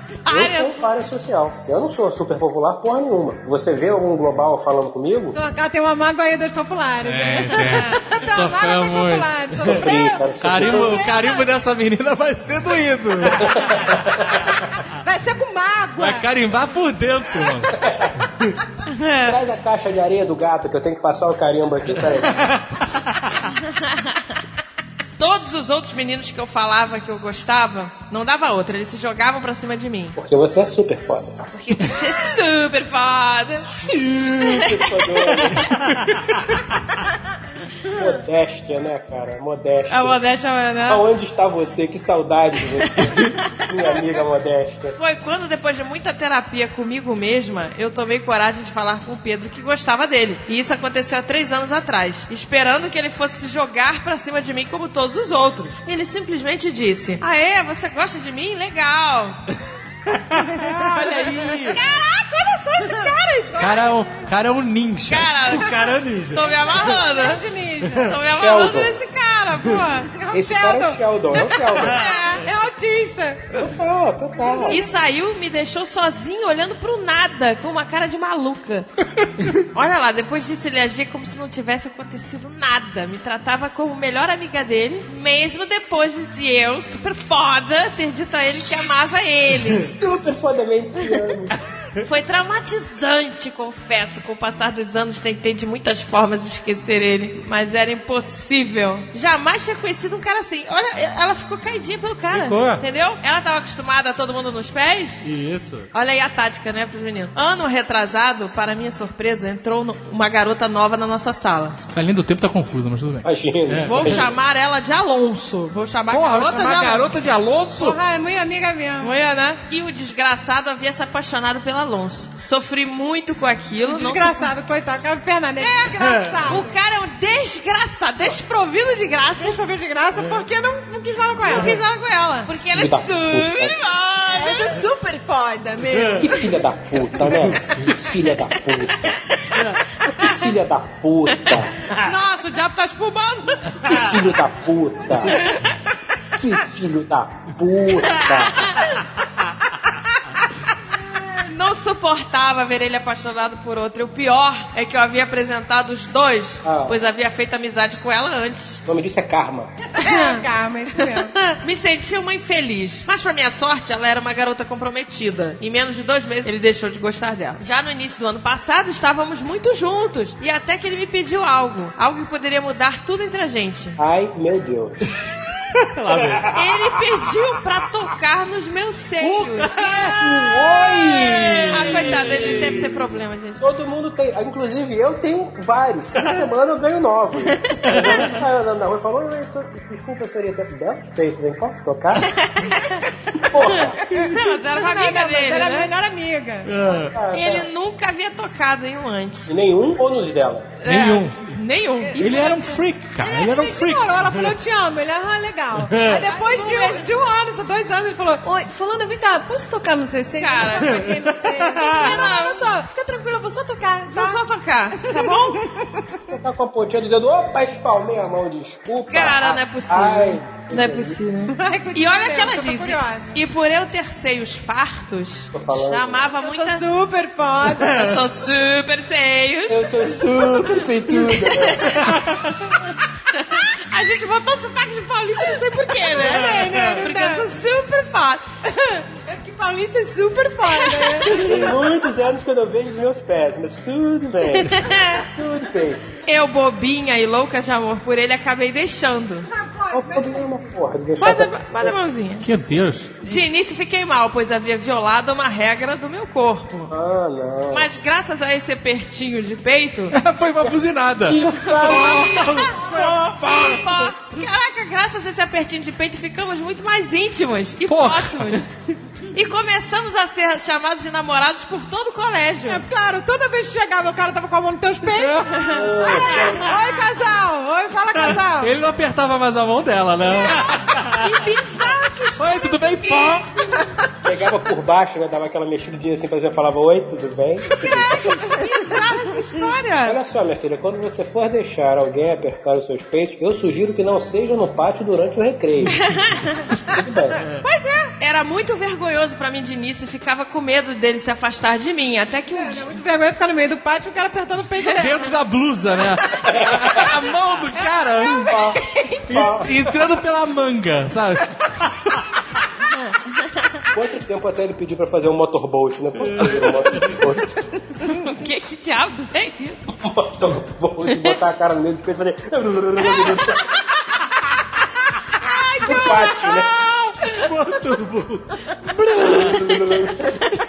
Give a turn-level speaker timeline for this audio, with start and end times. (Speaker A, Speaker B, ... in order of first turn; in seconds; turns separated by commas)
Speaker A: 0.2-0.8, Speaker B: 0.2-5.4, Speaker C: 5.3-11.5, Speaker D: 7.0-9.7, Speaker B: 9.7-11.0, Speaker D: 10.4-13.7, Speaker B: 13.6-14.2, Speaker C: 15.0-16.2, Speaker D: 16.0-17.8, Speaker B: 17.8-18.1, Speaker A: 18.9-19.3, Speaker B: 19.2-22.6, Speaker A: 25.2-30.1, Speaker B: 30.1-31.5, Speaker A: 31.5-33.8, Speaker B: 33.7-35.6, Speaker A: 34.4-34.9, Speaker B: 37.9-40.2, Speaker A: 39.9-41.0, Speaker B: 40.8-45.0, Speaker A: 44.9-59.4, Speaker E: 60.1-61.8, Speaker C: 60.4-61.5, Speaker A: 61.7-63.9, Speaker C: 62.8-63.1, Speaker D: 63.6-65.3, Speaker A: 65.0-67.4, Speaker E: 65.5-66.5, Speaker C: 66.4-68.1, Speaker A: 68.1-70.1, Speaker B: 68.2-69.0, Speaker C: 70.2-71.0, Speaker B: 70.3-72.0, Speaker E: 71.9-72.4, Speaker A: 71.9-72.4, Speaker C: 72.4-73.6, Speaker B: 73.5-74.8, Speaker C: 74.4-74.8, Speaker A: 74.7-78.9, Speaker A: 79.7-89.9, Speaker B: 89.8-91.5, Speaker A: 92.0-105.2, Speaker E: 102.3-102.8, Speaker E: 105.2-105.9, Speaker A: 105.9-111.8, Speaker D: 111.9-113.3, Speaker B: 113.2-114.3, Speaker E: 113.7-114.2, Speaker A: 113.8-117.3, Speaker D: 116.1-118.0, Speaker C: 117.8-119.1, Speaker A: 119.0-124.5, Speaker C: 123.8-126.7, Speaker A: 125.6-125.9, Speaker E: 126.0-126.4, Speaker A: 126.5-129.6, Speaker C: 129.4-131.8, Speaker A: 131.5-134.8, Speaker B: 132.5-133.7, Speaker C: 134.3-136.3, Speaker B: 136.2-139.1, Speaker E: 137.5-137.8, Speaker B: 140.0-141.7, Speaker A: 142.1-143.5, Speaker C: 142.2-143.3, Speaker B: 143.8-145.4, Speaker B: 146.3-148.7, Speaker A: 151.3-158.8, Speaker B: 156.6-157.0, Speaker B: 158.8-159.7, Speaker C: 159.9-161.3, Speaker A: 160.0-160.4, Speaker A: 161.4-174.0, Speaker B: 174.0-175.3, Speaker E: 175.9-176.4, Speaker B: 176.1-177.0, Speaker A: 176.5-180.0, Speaker E: 179.2-180.3, Speaker B: 180.0-182.9, Speaker E: 181.2-183.1, Speaker A: 181.4-183.6, Speaker B: 183.6-192.3, Speaker E: 187.8-188.4, Speaker A: 192.4-192.9, Speaker B: 193.5-194.0, Speaker C: 194.1-196.9, Speaker A: 194.3-195.9, Speaker E: 196.6-197.2, Speaker B: 197.0-197.7, Speaker A: 197.3-199.5, Speaker B: 199.5-200.8, Speaker A: 200.8-202.6, Speaker D: 200.8-201.4, Speaker C: 202.1-214.4, Speaker D: 202.2-204.1, Speaker E: 204.2-204.5, Speaker E: 205.8-206.2, Speaker A: 206.2-207.1, Speaker A: 210.4-211.0, Speaker E: 210.9-212.1, Speaker A: 211.9-212.8, Speaker A: 214.1-215.6, Speaker C: 215.0-216.1, Speaker B: 216.3-221.2, Speaker A: 219.1-226.8, Speaker C: 221.5-223.3, Speaker B: 225.5-226.3, Speaker C: 226.4-228.1, Speaker A: 227.9-229.8, Speaker B: 229.7-232.0, Speaker A: 230.5-232.2, Speaker E: 232.0-232.4, Speaker A: 233.4-233.8, Speaker C: 233.9-237.5, Speaker A: 234.3-238.4, Speaker E: 236.3-236.9, Speaker C: 238.7-241.4, Speaker A: 240.7-241.5, Speaker B: 241.3-246.1, Speaker A: 244.5-245.2, Speaker A: 246.2-249.5, Speaker C: 249.5-250.5, Speaker B: 249.9-251.9, Speaker A: 251.2-252.5, Speaker D: 252.4-253.2, Speaker A: 253.2-256.9, Speaker B: 256.9-257.9, Speaker A: 257.7-260.1, Speaker D: 260.1-261.4, Speaker B: 260.6-263.9, Speaker A: 261.6-268.7, Speaker D: 261.9-262.4, Speaker D: 267.9-268.6, Speaker A: 269.3-272.8, Speaker C: 272.7-278.7, Speaker D: 275.1-275.6, Speaker B: 275.7-276.7, Speaker A: 276.0-276.5, Speaker D: 278.6-280.6, Speaker A: 280.5-283.6, Speaker D: 282.4-283.4, Speaker B: 284.2-288.6, Speaker A: 288.4-290.1, Speaker C: 288.5-289.6, Speaker B: 290.0-296.1, Speaker A: 296.0-296.5, Speaker B: 296.8-297.4, Speaker A: 297.6-302.9, Speaker C: 302.5-305.3, Speaker D: 305.0-308.8, Speaker B: 306.4-307.1, Speaker C: 307.8-308.5, Speaker B: 309.3-310.0, Speaker D: 309.3-311.5, Speaker B: 313.9-317.6, Speaker E: 316.2-317.2, Speaker A: 318.0-319.8, Speaker B: 319.9-323.6, Speaker A: 321.1-321.4, Speaker A: 323.1-323.6, Speaker A: 325.4-326.6, Speaker B: 325.8-326.7, Speaker E: 327.4-328.5, Speaker B: 329.0-330.3